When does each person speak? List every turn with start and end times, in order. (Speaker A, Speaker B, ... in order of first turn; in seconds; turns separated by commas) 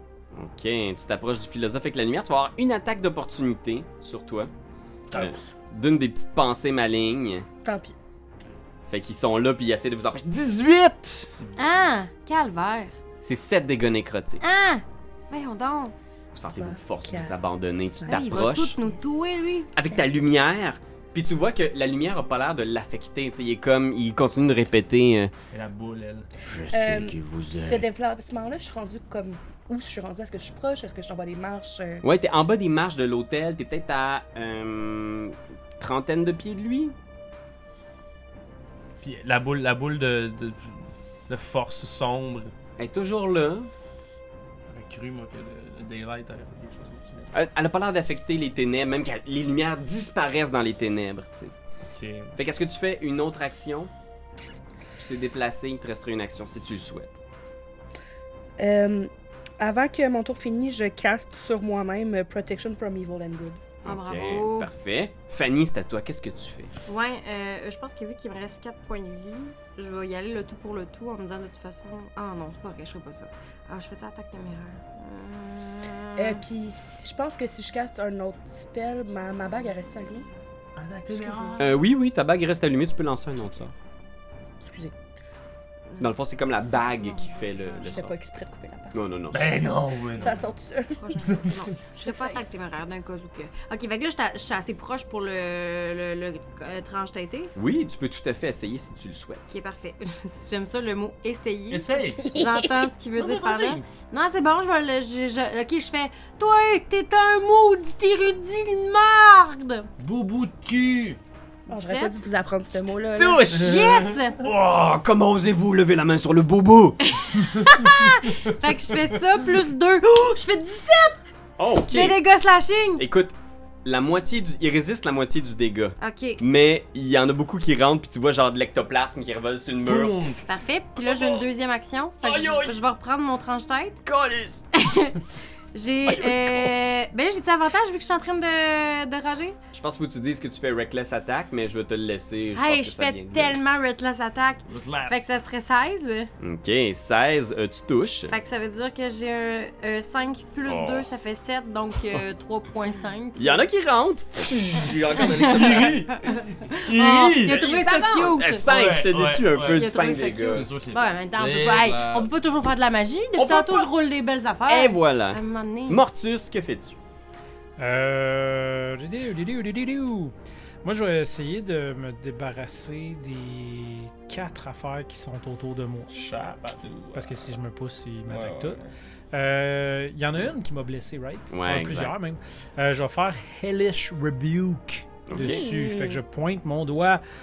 Speaker A: 0.3-4.5, Speaker B: 5.1-5.4, Speaker A: 5.1-7.5, Speaker C: 7.6-7.9, Speaker A: 8.9-11.3, Speaker B: 11.2-11.6, Speaker D: 11.6-13.0, Speaker A: 13.2-14.4, Speaker D: 14.4-15.9, Speaker A: 16.3-18.8, Speaker C: 16.5-18.9, Speaker D: 18.1-19.7, Speaker A: 19.7-25.3, Speaker B: 25.5-26.3, Speaker A: 26.4-27.9, Speaker C: 26.7-32.0, Speaker A: 32.0-36.9, Speaker B: 39.0-42.5, Speaker A: 42.8-43.7, Speaker B: 44.7-47.3, Speaker A: 47.3-51.5, Speaker B: 51.9-52.3, Speaker A: 52.4-53.9, Speaker A: 55.0-57.2, Speaker C: 58.6-63.6, Speaker A: 63.8-66.7, Speaker D: 63.8-64.7, Speaker D: 66.8-76.4, Speaker C: 76.2-80.3, Speaker B: 80.8-81.7, Speaker C: 80.8-81.7, Speaker A: 81.6-83.7, Speaker C: 84.6-84.9, Speaker A: 86.0-88.1, Speaker D: 87.0-88.0, Speaker C: 87.9-89.0, Speaker A: 88.9-89.7, Speaker B: 89.3-90.4, Speaker C: 90.1-91.1, Speaker D: 91.0-97.5, Speaker B: 91.3-91.6, Speaker C: 92.0-92.4, Speaker A: 97.5-99.4, Speaker D: 99.5-109.9, Speaker B: 101.7-102.3, Speaker C: 102.2-102.9, Speaker B: 103.1-103.8, Speaker B: 110.0-111.2, Speaker D: 111.7-112.1, Speaker C: 111.7-113.6, Speaker A: 113.1-117.1, Speaker B: 113.5-114.3, Speaker D: 113.5-114.4, Speaker D: 117.0-121.2, Speaker B: 117.5-118.5, Speaker A: 121.6-122.2, Speaker D: 121.9-123.0, Speaker A: 123.0-130.4, Speaker D: 126.0-126.4, Speaker B: 129.8-130.5, Speaker D: 130.4-134.0, Speaker A: 130.9-131.4, Speaker A: 132.2-132.8, Speaker A: 134.0-134.7, Speaker D: 134.7-135.2, Speaker D: 135.7-139.6, Speaker A: 136.1-136.7, Speaker A: 139.7-143.6, Speaker D: 142.5-146.3, Speaker B: 144.7-145.3, Speaker A: 146.4-148.3, Speaker D: 148.3-153.5, Speaker B: 150.8-151.0, Speaker A: 153.3-155.9, Speaker B: 154.8-157.7, Speaker D: 155.2-158.6, Speaker A: 157.4-160.7, Speaker B: 158.6-162.3, Speaker D: 159.7-166.0, Speaker A: 163.3-163.9, Speaker A: 164.7-166.9, Speaker E: 167.8-176.2, Speaker B: 176.1-177.6, Speaker E: 177.1-178.8, Speaker B: 178.3-178.9, Speaker E: 179.3-187.2, Speaker A: 181.5-182.2, Speaker A: 185.3-185.7, Speaker C: 185.4-186.2